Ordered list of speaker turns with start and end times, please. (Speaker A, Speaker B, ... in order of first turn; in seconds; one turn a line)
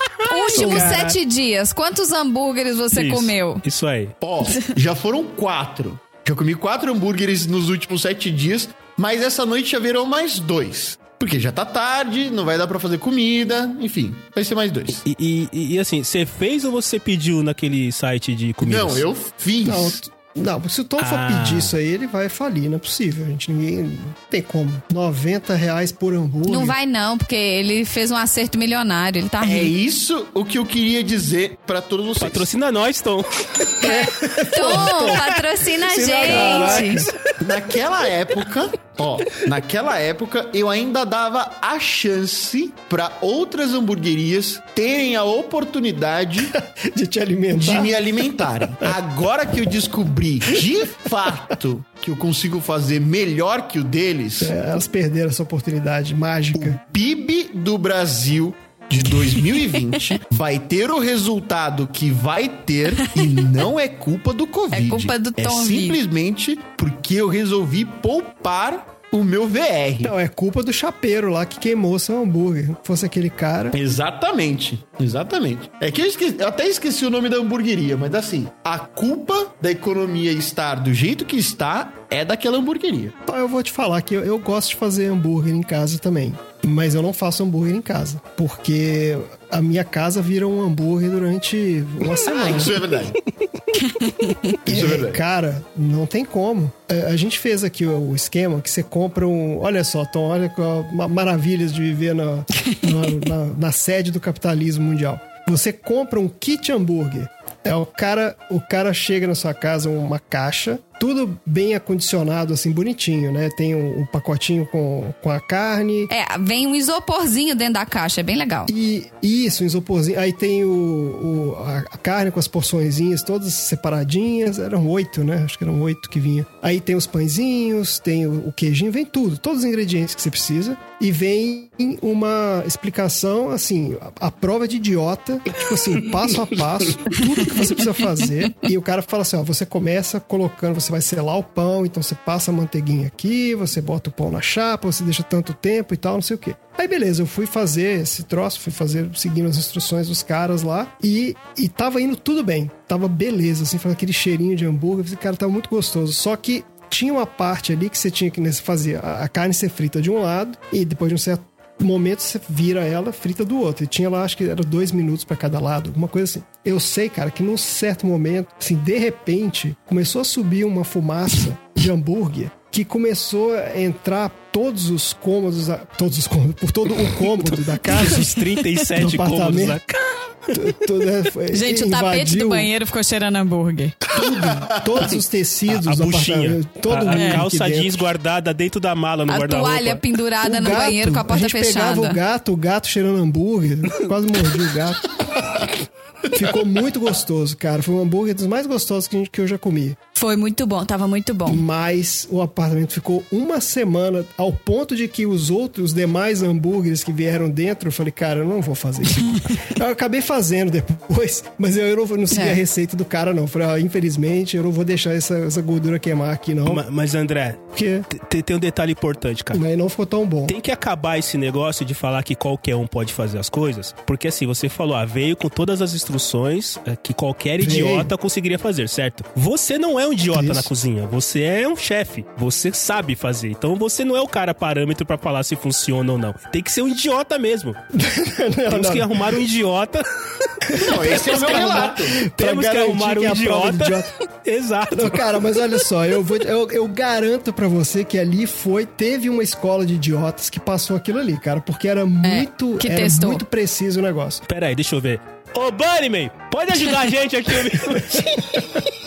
Speaker A: 0.2-3.6
Speaker B: 0.5-1.1
Speaker C: 0.5-1.2
Speaker B: 2.9-4.1
Speaker D: 4.2-15.0
Speaker B: 15.0-19.0
Speaker D: 18.6-20.0
Speaker C: 19.6-26.8
Speaker B: 21.0-21.7
Speaker A: 26.4-29.7
Speaker D: 29.4-32.5
Speaker B: 32.2-33.8
Speaker C: 33.8-35.3
Speaker A: 33.8-37.0
Speaker B: 34.4-37.3
Speaker C: 36.1-37.1
Speaker D: 37.4-46.5
Speaker C: 46.5-47.9
Speaker D: 47.5-54.5
Speaker C: 54.4-56.8
Speaker D: 56.5-70.1
Speaker A: 64.7-66.0
Speaker C: 70.0-73.8
Speaker D: 73.7-83.1
Speaker C: 83.2-92.8
Speaker D: 92.2-93.2
Speaker A: 93.8-94.5
Speaker C: 94.6-116.1
Speaker D: 94.7-95.2
Speaker A: 116.1-118.7
Speaker C: 118.7-179.8
Speaker B: 177.2-180.7
Speaker C: 180.5-182.7
Speaker A: 181.5-183.9
Speaker C: 184.1-188.1
Speaker D: 184.1-185.1
Speaker B: 185.7-190.0
Speaker A: 187.1-187.4
Speaker A: 189.3-192.2
Speaker C: 190.4-195.2
Speaker C: 196.3-200.0
Speaker A: 200.1-201.6
Speaker C: 201.4-216.8
Speaker A: 212.3-212.6
Speaker B: 216.7-219.6
Speaker C: 217.7-218.1
Speaker C: 219.5-220.6
Speaker B: 220.5-237.8
Speaker C: 227.6-228.1
Speaker C: 230.3-230.7
Speaker C: 237.9-239.3
Speaker B: 238.7-245.6
Speaker C: 240.7-244.1
Speaker D: 240.7-242.2
Speaker C: 244.9-254.4
Speaker A: 252.2-253.4
Speaker B: 254.5-258.6
Speaker C: 257.9-258.8